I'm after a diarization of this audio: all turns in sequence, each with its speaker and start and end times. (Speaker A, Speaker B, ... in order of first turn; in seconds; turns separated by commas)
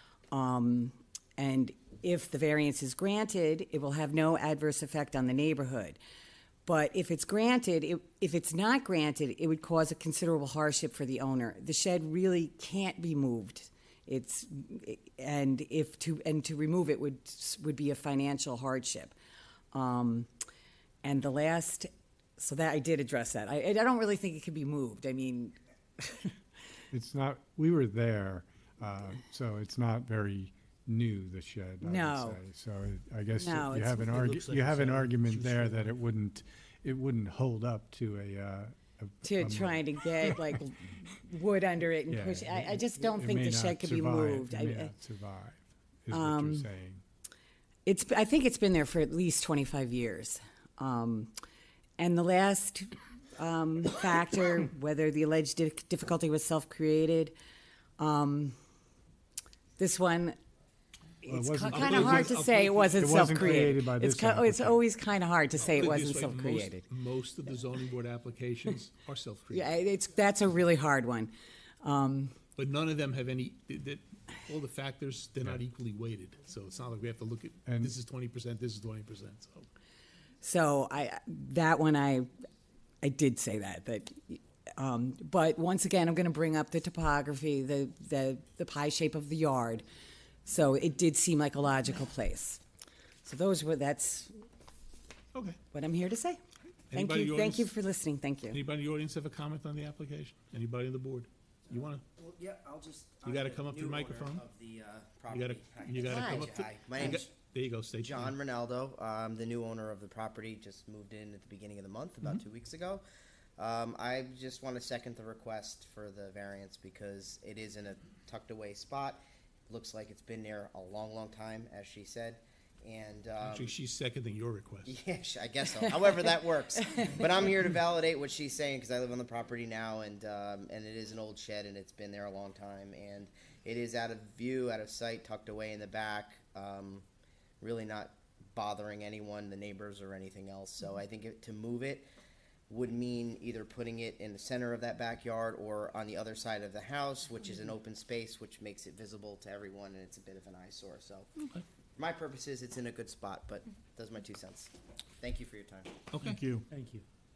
Speaker A: 0.3-6.0, Speaker A: 6.7-19.1, Speaker A: 19.7-20.3, Speaker A: 21.0-26.3, Speaker B: 26.9-40.4, Speaker A: 31.8-32.4, Speaker A: 33.4-34.2, Speaker C: 34.1-35.8, Speaker A: 39.2-44.9, Speaker B: 42.1-47.0, Speaker A: 46.1-46.7, Speaker A: 47.9-51.3, Speaker A: 52.0-57.3, Speaker A: 58.0-58.6, Speaker A: 59.8-60.4, Speaker A: 61.2-66.8, Speaker B: 61.3-62.4, Speaker D: 61.7-63.7, Speaker B: 62.9-64.8, Speaker D: 65.6-69.7, Speaker A: 69.5-72.3, Speaker D: 72.6-79.7, Speaker B: 77.7-77.9, Speaker A: 80.4-82.3, Speaker A: 83.0-89.8, Speaker A: 90.5-92.6, Speaker A: 93.2-94.4, Speaker D: 95.3-95.6, Speaker A: 95.7-96.4, Speaker D: 96.9-97.7, Speaker A: 96.9-98.6, Speaker D: 98.5-102.0, Speaker E: 102.2-107.3, Speaker D: 103.2-104.5, Speaker D: 105.3-108.3, Speaker A: 106.0-107.3, Speaker E: 108.0-113.0, Speaker E: 113.6-123.7, Speaker D: 123.4-124.9, Speaker E: 124.9-137.1, Speaker E: 137.6-142.1, Speaker E: 142.7-151.3, Speaker D: 151.4-151.6, Speaker E: 152.0-155.9, Speaker D: 156.1-156.4, Speaker B: 156.3-156.6, Speaker C: 156.7-157.0